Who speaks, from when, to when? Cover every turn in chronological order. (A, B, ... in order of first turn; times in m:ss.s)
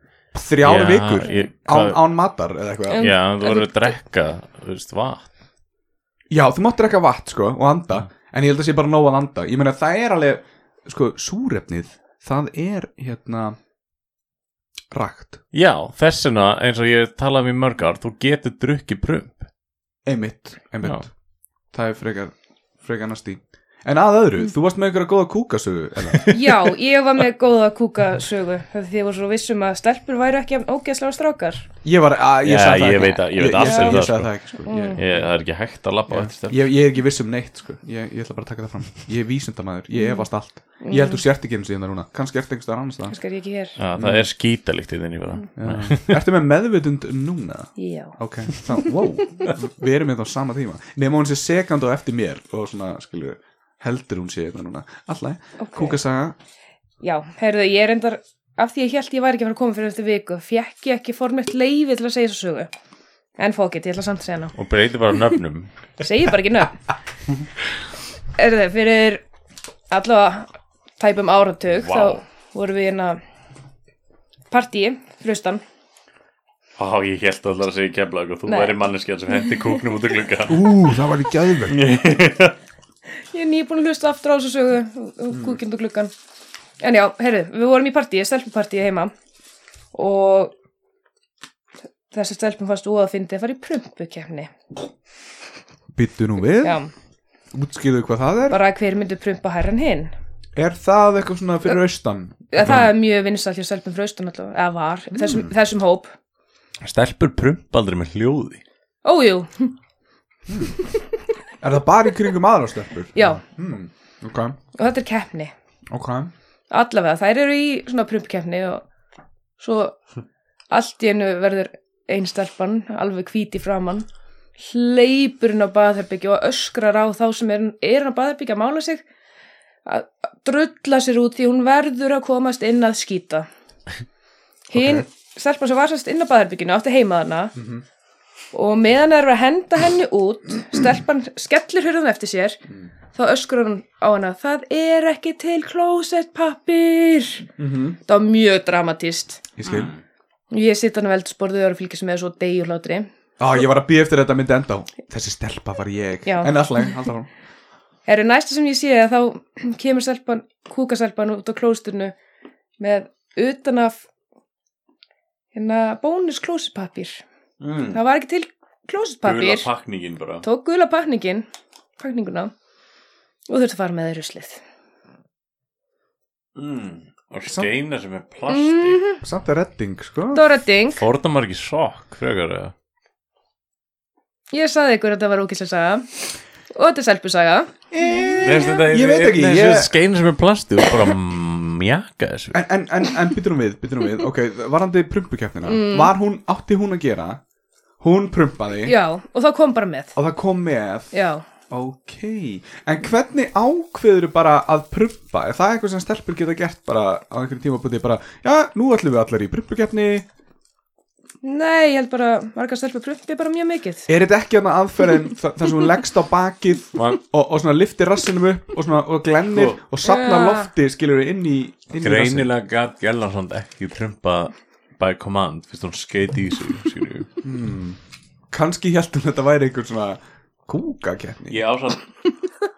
0:00.3-0:03.1 A
0:00.6-0:02.0 B
0:02.9-0:03.9 C
0:03.0-0:05.3 B
0:06.3-0:13.6 A
0:14.9-0:15.4 A
0:15.5-0:19.4 B
0:20.0-0:21.1 A
0:21.7-0:26.3 A
0:26.3-0:31.6 C
0:31.8-0:35.3 A
0:32.4-0:34.3 B
0:33.6-0:34.0 C
0:34.6-0:35.0 C
0:35.0-0:36.6 B
0:36.1-0:43.2 A
0:39.9-0:41.2 C
0:43.1-0:43.8 C
0:43.8-0:46.2 B
0:44.0-0:44.3 A
0:45.6-0:56.4 A
0:47.8-0:48.2 C
0:55.6-0:56.0 C
0:57.0-1:02.7 C
1:03.4-1:04.5 C
1:04.6-1:05.7 B
1:06.0-1:06.8 C
1:08.3-1:09.2 C
1:09.9-1:13.2 C
1:11.8-1:12.2 B
1:14.5-1:15.6 C
1:16.8-1:20.7 B
1:18.5-1:18.7 C
1:20.5-1:21.8 A
1:21.7-1:22.6 B
1:23.3-1:26.1 C
1:25.3-1:25.6 A
1:26.8-1:29.1 C
1:29.9-1:30.5 C
1:32.1-1:34.5 C
1:35.9-1:36.8 A
1:36.6-1:36.9 C
1:37.5-1:38.6 A
1:38.5-1:40.1 C
1:40.6-1:42.4 A
1:42.5-1:46.1 C
1:42.6-1:42.9 B
1:45.1-1:45.5 A
1:46.8-1:48.6 B
1:49.0-1:49.7 C
1:50.5-1:50.8 A
1:51.6-1:54.6 A
1:53.1-1:53.4 C
1:54.7-1:55.5 C
1:55.9-1:56.3 A
1:56.7-1:58.8 C
1:59.6-2:00.0 C
2:00.7-2:09.0 C
2:09.8-2:13.5 C
2:14.7-2:17.5 C
2:14.7-2:15.0 A
2:17.6-2:17.8 A
2:18.5-2:22.6 C
2:23.1-2:27.5 C
2:27.6-2:28.0 A
2:28.1-2:29.5 C
2:29.6-2:29.9 A
2:30.5-2:33.1 C
2:33.4-2:37.3 A
2:36.2-2:36.5 C
2:38.1-2:42.1 C
2:42.8-2:44.0 C
2:45.5-2:47.2 C
2:47.6-2:48.0 A
2:47.9-2:49.7 C
2:49.2-2:50.4 B
2:50.4-2:51.4 C
2:52.0-2:52.5 C
2:53.5-2:54.6 C
2:56.6-2:59.0 B
2:58.5-2:59.2 C
2:59.2-3:00.4 A
3:00.3-3:01.0 C
3:01.0-3:02.7 B
3:04.5-3:06.1 C
3:06.7-3:08.7 C
3:07.9-3:09.9 A
3:08.4-3:12.6 B
3:12.5-3:17.4 A
3:15.6-3:16.1 C
3:18.0-3:18.9 A
3:18.8-3:20.1 C
3:20.2-3:21.1 A
3:21.1-3:21.4 C
3:21.7-3:30.3 A
3:31.4-3:34.1 C
3:34.1-3:42.5 A
3:36.9-3:37.2 B
3:39.5-3:39.8 B
3:40.0-3:40.7 C
3:42.0-3:47.3 B
3:47.4-3:48.0 A
3:48.5-3:51.6 A
3:51.5-3:52.1 B